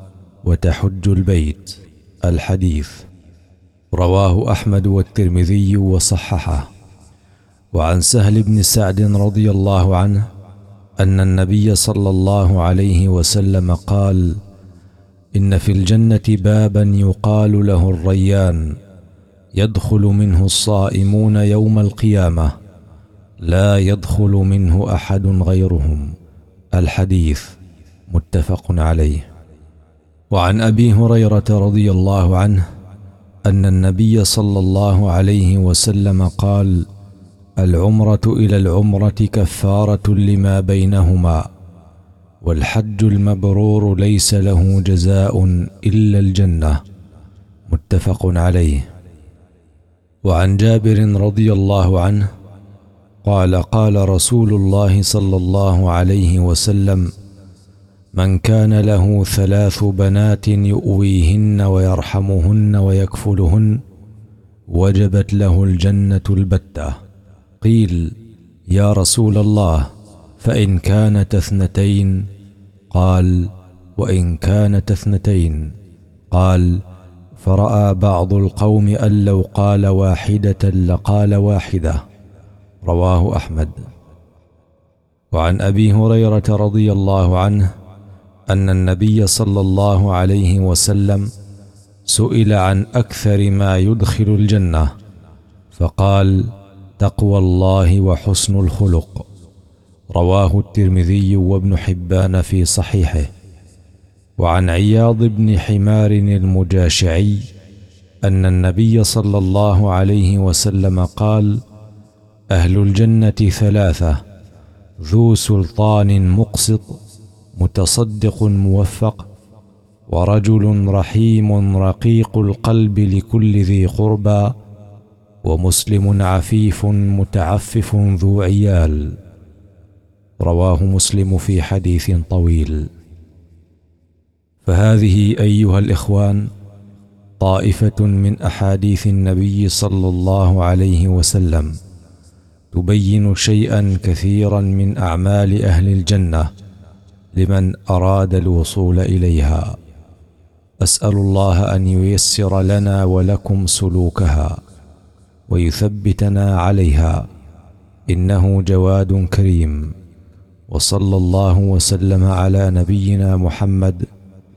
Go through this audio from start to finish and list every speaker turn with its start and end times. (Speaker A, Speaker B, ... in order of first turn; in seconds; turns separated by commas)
Speaker A: 0.4-3.0, Speaker A: 3.9-6.7, Speaker A: 7.7-10.2, Speaker A: 11.0-14.4, Speaker A: 15.3-18.7, Speaker A: 19.6-22.5, Speaker A: 23.4-26.1, Speaker A: 26.7-27.5, Speaker A: 28.1-29.2, Speaker A: 30.3-32.6, Speaker A: 33.5-36.8, Speaker A: 37.6-41.4, Speaker A: 42.4-46.8, Speaker A: 47.7-48.9, Speaker A: 50.2-52.3, Speaker A: 53.2-57.1, Speaker A: 58.1-63.8, Speaker A: 64.7-67.0, Speaker A: 67.6-68.1, Speaker A: 68.7-69.9, Speaker A: 70.4-72.3, Speaker A: 72.9-75.7, Speaker A: 76.3-76.8, Speaker A: 77.4-82.0, Speaker A: 82.8-83.9, Speaker A: 85.3-87.7, Speaker A: 88.5-91.3, Speaker A: 92.1-94.9, Speaker A: 95.7-99.2, Speaker A: 100.1-103.3, Speaker A: 104.4-107.4, Speaker A: 108.2-111.6, Speaker A: 112.5-114.2, Speaker A: 115.0-117.0, Speaker A: 117.5-119.2, Speaker A: 120.1-124.5, Speaker A: 125.4-129.2, Speaker A: 130.4-132.9, Speaker A: 134.6-136.5, Speaker A: 137.4-141.8, Speaker A: 142.7-146.5, Speaker A: 147.3-149.8, Speaker A: 150.8-154.6, Speaker A: 155.5-157.2, Speaker A: 158.1-159.9, Speaker A: 160.7-164.1